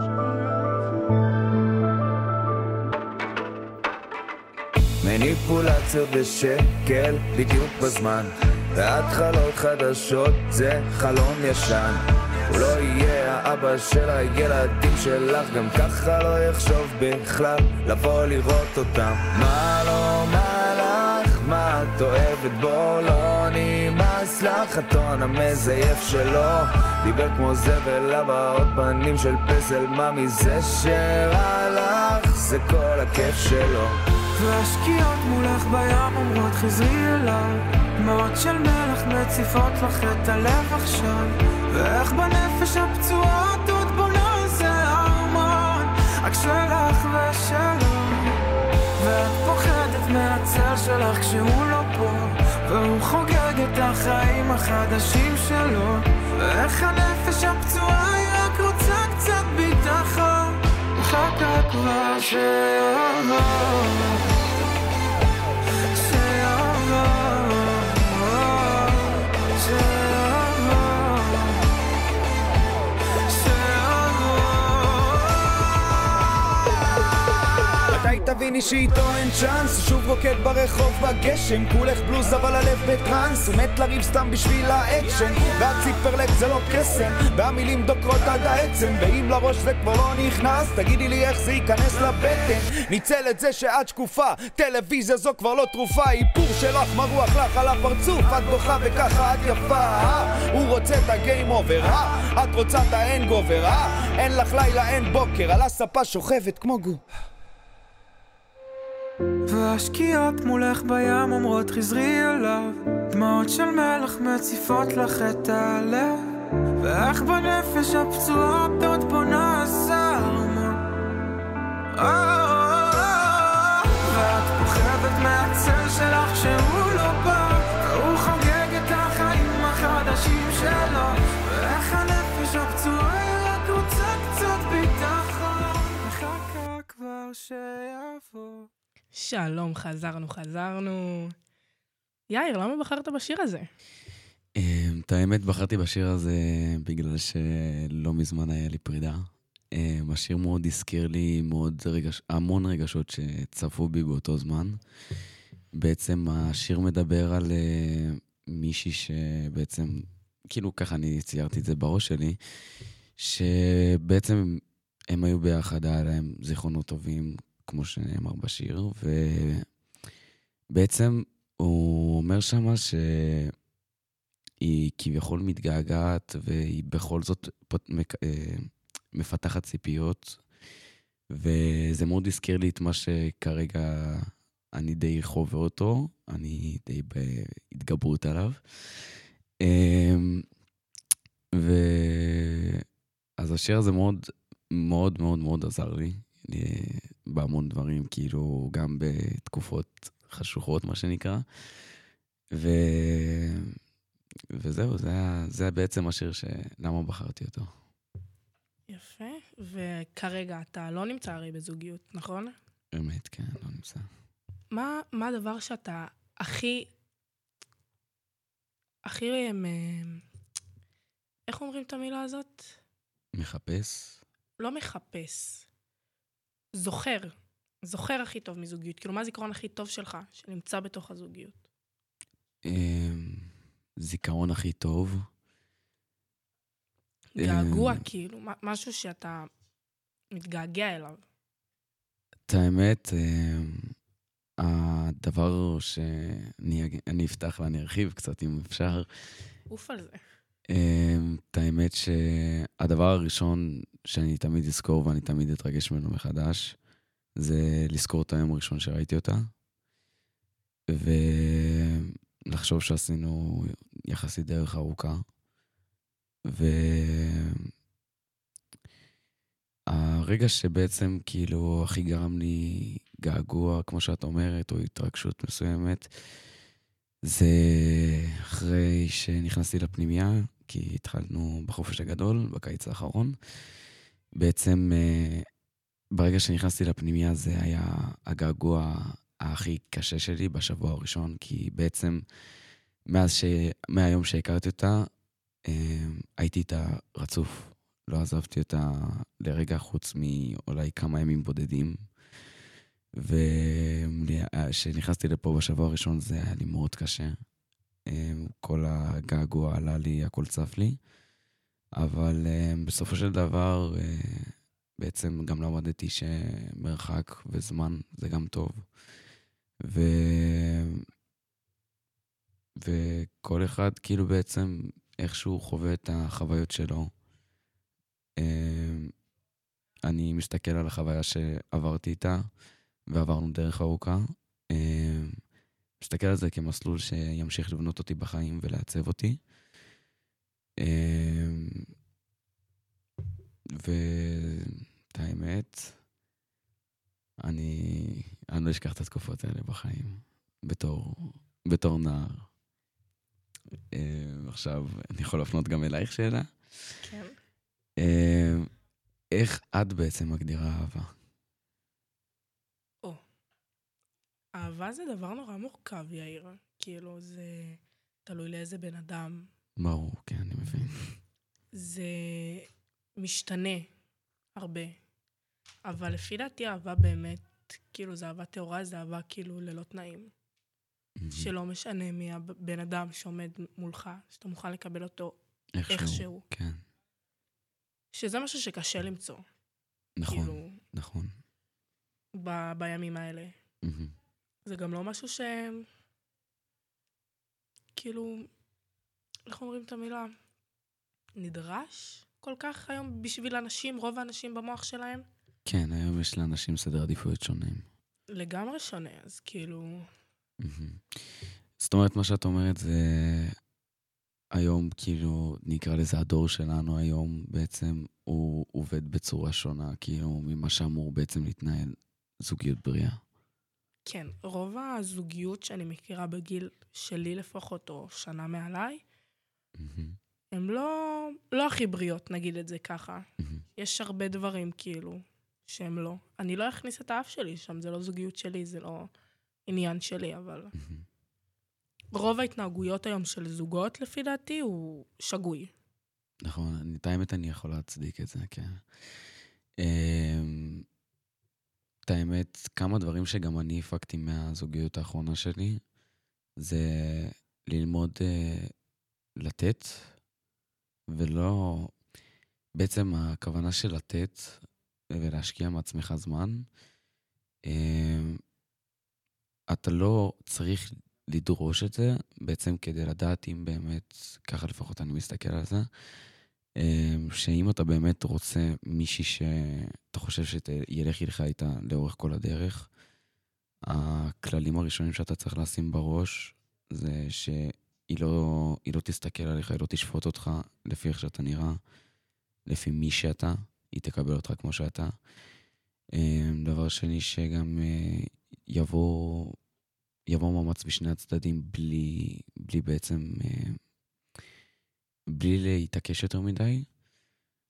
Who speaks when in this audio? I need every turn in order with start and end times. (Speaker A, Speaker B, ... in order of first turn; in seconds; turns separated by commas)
Speaker A: 5.0-34.0, Speaker B: 34.4-48.4, Speaker B: 49.0-64.2, Speaker B: 65.9-71.6, Speaker B: 73.3-75.9, Speaker A: 77.9-107.0, Speaker B: 109.5-116.2, Speaker B: 116.8-120.8, Speaker B: 121.9-138.7, Speaker C: 139.1-141.3, Speaker C: 142.3-143.7, Speaker D: 144.6-154.8, Speaker D: 155.7-162.4, Speaker D: 163.2-169.7, Speaker D: 170.7-173.5, Speaker D: 174.6-180.4, Speaker D: 181.3-188.6, Speaker D: 189.6-190.4, Speaker D: 191.5-192.8, Speaker D: 193.4-201.4, Speaker D: 202.5-203.7, Speaker D: 204.5-207.7, Speaker C: 208.9-212.5, Speaker D: 212.9-214.1, Speaker C: 214.7-216.9, Speaker C: 219.0-220.2, Speaker C: 221.5-222.8, Speaker D: 223.3-224.2, Speaker C: 224.6-225.7, Speaker C: 226.7-231.6, Speaker D: 232.6-235.3, Speaker C: 237.3-239.5, Speaker D: 237.4-238.0, Speaker C: 240.3-241.2, Speaker D: 242.5-243.9, Speaker D: 244.6-249.1, Speaker C: 249.7-250.2, Speaker D: 250.7-256.8, Speaker D: 257.4-259.5, Speaker D: 260.9-265.2, Speaker D: 266.5-267.7, Speaker D: 269.9-276.1, Speaker D: 277.2-283.4, Speaker D: 284.4-285.5, Speaker D: 286.1-292.2, Speaker D: 293.1-295.1, Speaker D: 295.6-302.1, Speaker D: 303.1-307.4, Speaker D: 308.1-311.0, Speaker D: 311.9-318.9, Speaker D: 319.8-321.1, Speaker D: 322.8-327.1, Speaker D: 328.4-329.1, Speaker D: 330.0-332.4, Speaker D: 333.1-335.4, Speaker D: 336.0-339.4, Speaker D: 340.8-341.9, Speaker D: 343.7-346.0, Speaker D: 347.4-352.5, Speaker D: 353.9-356.5, Speaker C: 357.0-357.3, Speaker D: 358.0-358.7, Speaker D: 359.3-361.1, Speaker C: 364.5-369.5, Speaker D: 369.8-371.2, Speaker C: 371.7-373.9, Speaker C: 374.6-374.9, Speaker C: 375.8-380.3, Speaker D: 381.2-381.5, Speaker C: 381.3-385.4, Speaker D: 385.7-386.8, Speaker C: 385.9-386.4, Speaker C: 388.1-389.4, Speaker D: 390.2-391.3, Speaker C: 390.3-390.8, Speaker C: 392.4-393.5, Speaker D: 393.8-394.1, Speaker C: 394.6-395.9, Speaker C: 397.9-398.5, Speaker C: 399.5-400.3, Speaker C: 401.4-405.2, Speaker D: 405.6-407.9, Speaker C: 408.3-410.1, Speaker D: 410.6-411.2, Speaker D: 411.8-413.6, Speaker D: 414.5-423.2, Speaker C: 424.0-429.0, Speaker D: 429.8-430.2, Speaker C: 430.5-433.2, Speaker D: 433.4-433.6, Speaker C: 433.8-439.1, Speaker C: 439.7-440.7, Speaker D: 440.8-441.0, Speaker C: 442.1-445.7, Speaker D: 446.4-448.8, Speaker D: 449.8-450.8, Speaker D: 452.1-455.8, Speaker D: 456.6-458.7, Speaker D: 459.4-460.1, Speaker D: 461.1-461.9, Speaker D: 462.8-466.7, Speaker D: 467.6-468.4, Speaker D: 469.7-475.9, Speaker D: 476.8-482.9, Speaker D: 483.8-491.8, Speaker D: 492.7-495.1, Speaker D: 496.1-499.6, Speaker D: 500.3-503.8, Speaker D: 505.3-506.9